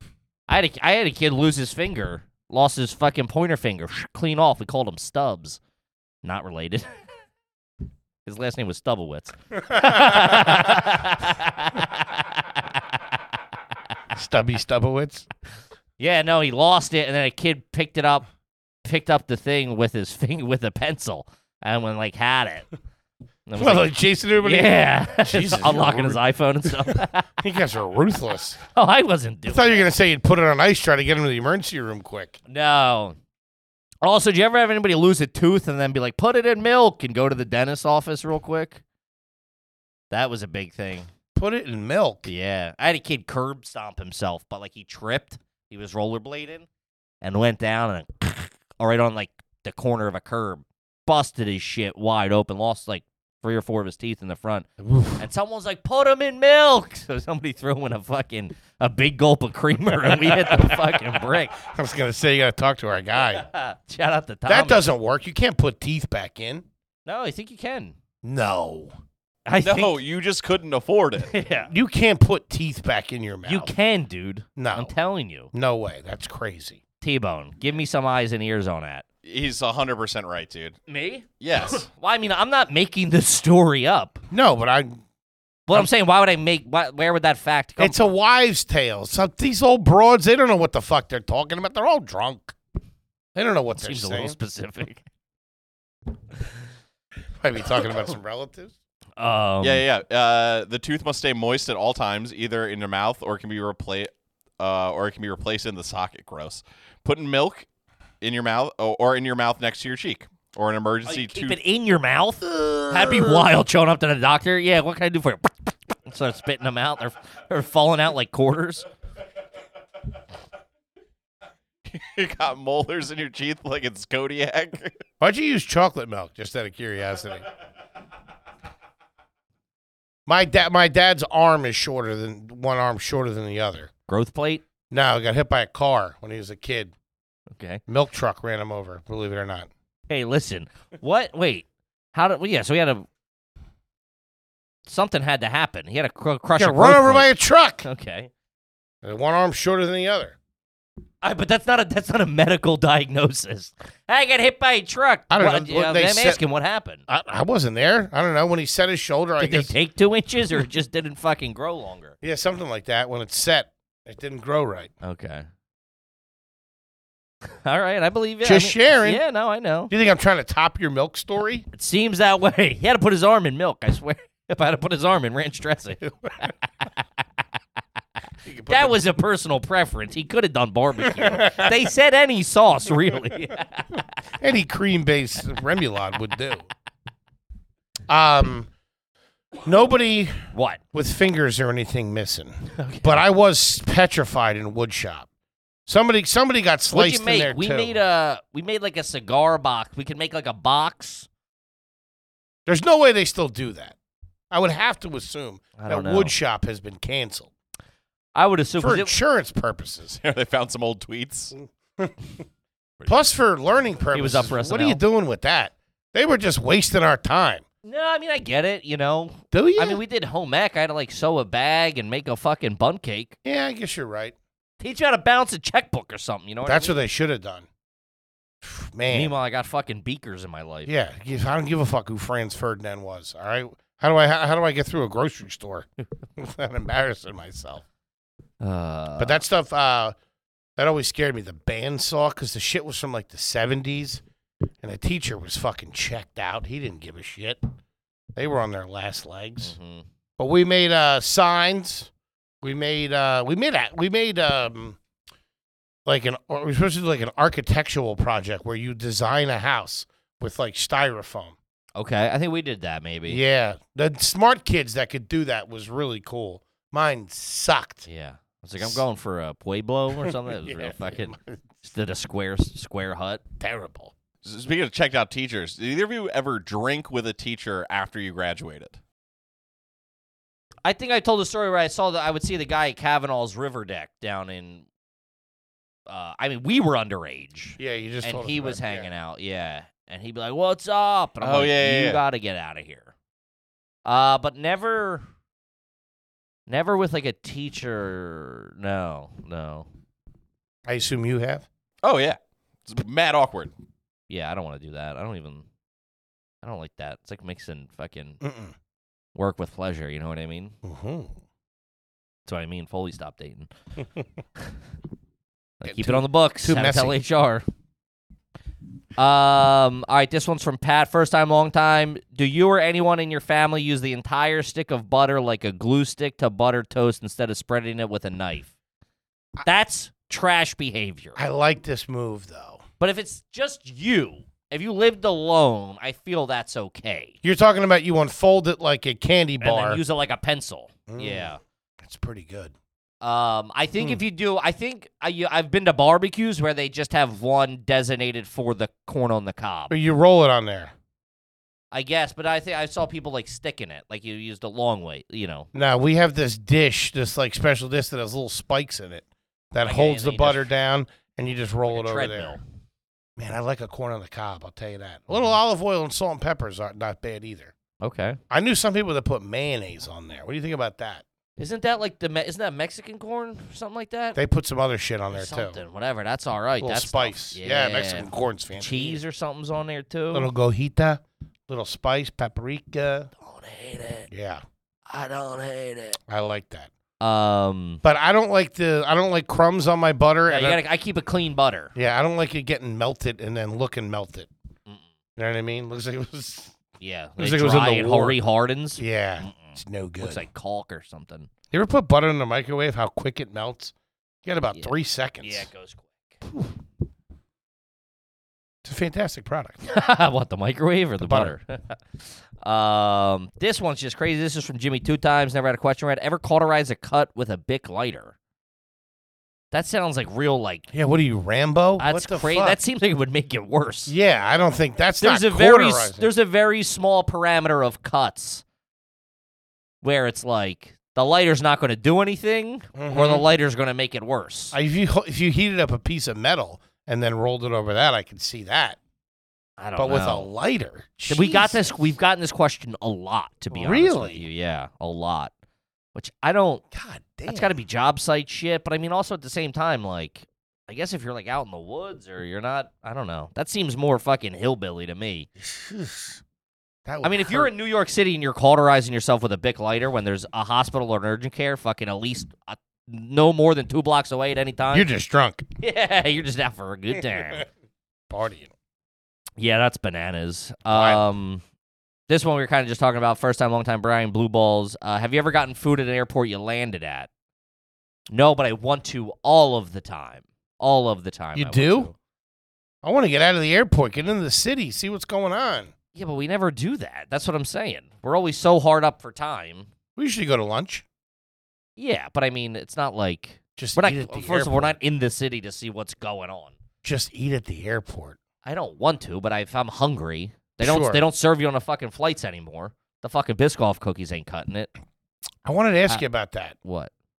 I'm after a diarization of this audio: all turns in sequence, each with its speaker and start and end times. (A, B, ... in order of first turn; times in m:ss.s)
0:00.5-0:05.6 A
0:06.2-0:06.9 A
0:08.2-0:12.8 A
0:09.7-0:10.6 B
0:14.1-0:15.2 B
0:16.0-0:18.2 A
0:18.8-0:22.7 A
0:23.5-0:27.3 A
0:23.6-0:26.2 B
0:26.8-0:28.6 B
0:28.7-0:29.8 A
0:29.5-0:32.4 B
0:32.5-0:33.2 A
0:34.0-0:38.8 A
0:40.1-0:41.1 A
0:41.4-0:42.3 B
0:42.2-0:46.6 A
0:47.2-1:01.6 A
0:54.8-0:55.2 B
1:00.4-1:00.7 B
1:01.6-1:03.4 B
1:03.4-1:04.8 A
1:04.5-1:06.6 B
1:07.0-1:08.0 A
1:08.2-1:08.9 B
1:09.5-1:10.0 A
1:09.6-1:11.4 C
1:11.3-1:11.7 A
1:11.7-1:13.7 B
1:13.4-1:15.5 A
1:14.6-1:14.9 B
1:15.5-1:16.8 B
1:17.0-1:19.0 A
1:19.2-1:20.8 C
1:20.9-1:24.2 A
1:21.4-1:21.8 C
1:24.3-1:25.0 B
1:25.7-1:28.1 A
1:27.8-1:32.5 B
1:33.3-1:34.4 B
1:33.8-1:35.0 A
1:37.4-1:38.7 B
1:39.2-1:39.8 A
1:39.6-1:47.7 C
1:48.2-1:51.6 C
1:51.0-1:58.9 A
1:52.6-1:53.2 B
2:01.9-2:05.0 C
2:05.2-2:07.4 B
2:10.3-2:13.9 B
2:14.1-2:14.6 A
2:14.9-2:16.9 B
2:17.6-2:17.8 A
2:17.9-2:19.7 B
2:20.1-2:23.0 A
2:24.8-2:27.3 A
2:26.6-2:27.8 B
2:27.8-2:28.3 A
2:29.0-2:30.4 B
2:31.2-2:37.0 A
2:35.3-2:36.4 B
2:37.1-2:39.7 B
2:39.4-2:42.1 A
2:42.2-2:44.9 B
2:45.0-2:45.4 A
2:47.6-2:49.9 A
2:48.4-2:49.2 B
2:49.9-2:51.7 B
2:51.7-2:56.0 A
2:56.2-2:56.5 B
2:58.4-2:58.9 B
2:58.7-3:04.0 A
3:01.1-3:01.7 B
3:04.4-3:06.7 B
3:08.1-3:08.7 B
3:09.6-3:10.4 B
3:10.5-3:10.8 A
3:10.9-3:15.3 B
3:12.8-3:13.2 A
3:15.9-3:18.0 B
3:16.9-3:21.3 A
3:22.7-3:23.9 B
3:24.5-3:27.5 B
3:25.8-3:26.3 A
3:28.3-3:29.1 A
3:28.8-3:30.2 B
3:30.2-3:31.5 C
3:31.6-3:32.1 B
3:33.1-3:37.6 B
3:34.1-3:35.0 A
3:37.8-3:43.3 A
3:39.5-3:40.0 B
3:43.4-3:44.3 B
3:44.8-3:47.0 A
3:46.6-3:47.6 B
3:48.6-3:49.3 B
3:49.1-3:50.9 A
3:50.8-3:57.8 B
3:58.6-3:59.4 A
3:59.2-4:00.1 B
4:00.8-4:04.2 B
4:04.8-4:07.6 B
4:08.4-4:09.7 B
4:09.6-4:10.0 A
4:10.4-4:12.1 B
4:12.6-4:15.0 B
4:16.0-4:21.6 B
4:22.0-4:23.4 A
4:23.3-4:28.0 B
4:28.0-4:33.4 A
4:30.5-4:31.6 B
4:33.6-4:34.1 B
4:34.4-4:39.0 C
4:40.8-4:44.8 A
4:46.1-4:53.1 A
4:47.8-4:49.1 B
4:51.4-4:52.2 C
4:54.0-4:55.2 A
4:56.7-4:59.8 A
5:00.9-5:01.6 B
5:02.0-5:03.7 C
5:04.3-5:05.6 A
5:06.6-5:08.4 A
5:08.4-5:08.7 B
5:09.3-5:10.7 A
5:10.8-5:11.3 B
5:12.4-5:13.7 A
5:15.8-5:17.2 B
5:15.8-5:17.6 A
5:19.2-5:28.7 A
5:29.6-5:31.4 A
5:31.4-5:32.8 B
5:33.0-5:37.4 A
5:37.4-5:40.0 B
5:39.6-5:41.6 A
5:41.1-5:42.7 B
5:43.2-5:49.9 A
5:49.9-5:50.9 B
5:51.9-5:55.7 A
5:55.7-6:02.6 B
5:59.8-6:00.7 A
6:01.9-6:02.6 A
6:03.4-6:07.7 B
6:08.0-6:08.4 A
6:08.5-6:11.2 B
6:11.6-6:14.4 A
6:14.3-6:15.8 B
6:15.3-6:20.5 A
6:16.8-6:19.2 B
6:20.3-6:23.3 B
6:23.4-6:24.3 A
6:24.3-6:24.6 B
6:25.1-6:26.2 A
6:26.3-6:26.9 B
6:27.2-6:28.0 A
6:28.0-6:30.8 B
6:30.5-6:31.9 A
6:31.9-6:34.5 B
6:35.4-6:36.7 B
6:37.0-6:41.5 A
6:37.4-6:38.4 B
6:39.0-6:40.4 B
6:41.7-6:43.9 B
6:44.4-6:45.7 B
6:44.7-6:46.3 A
6:48.8-6:49.8 B
6:49.8-6:51.8 A
6:51.2-6:51.5 B
6:52.6-6:58.3 A
6:59.7-7:00.9 A
7:00.9-7:02.8 B
7:02.0-7:04.1 A
7:04.1-7:06.3 B
7:05.2-7:08.6 A
7:10.0-7:14.7 A
7:13.0-7:13.4 B
7:14.7-7:19.0 B
7:19.8-7:20.5 A
7:20.0-7:22.0 B
7:21.3-7:25.5 A
7:23.7-7:24.4 B
7:26.1-7:26.8 A
7:26.9-7:27.7 B
7:27.5-7:35.5 A
7:35.6-7:36.4 B
7:37.0-7:37.7 B
7:37.2-7:45.1 A
7:44.9-7:45.6 B
7:45.8-7:47.6 A
7:48.3-7:48.7 B
7:49.6-7:51.6 A
7:50.9-7:51.2 B
7:52.3-7:57.3 A
7:58.3-8:02.1 A
8:01.5-8:02.1 B
8:03.0-8:05.9 B
8:06.1-8:09.9 A
8:10.2-8:11.0 B
8:12.0-8:16.7 A
8:13.8-8:15.0 B
8:17.0-8:18.4 B
8:18.6-8:24.9 A
8:20.8-8:21.2 B
8:25.6-8:26.7 B
8:26.8-8:27.1 A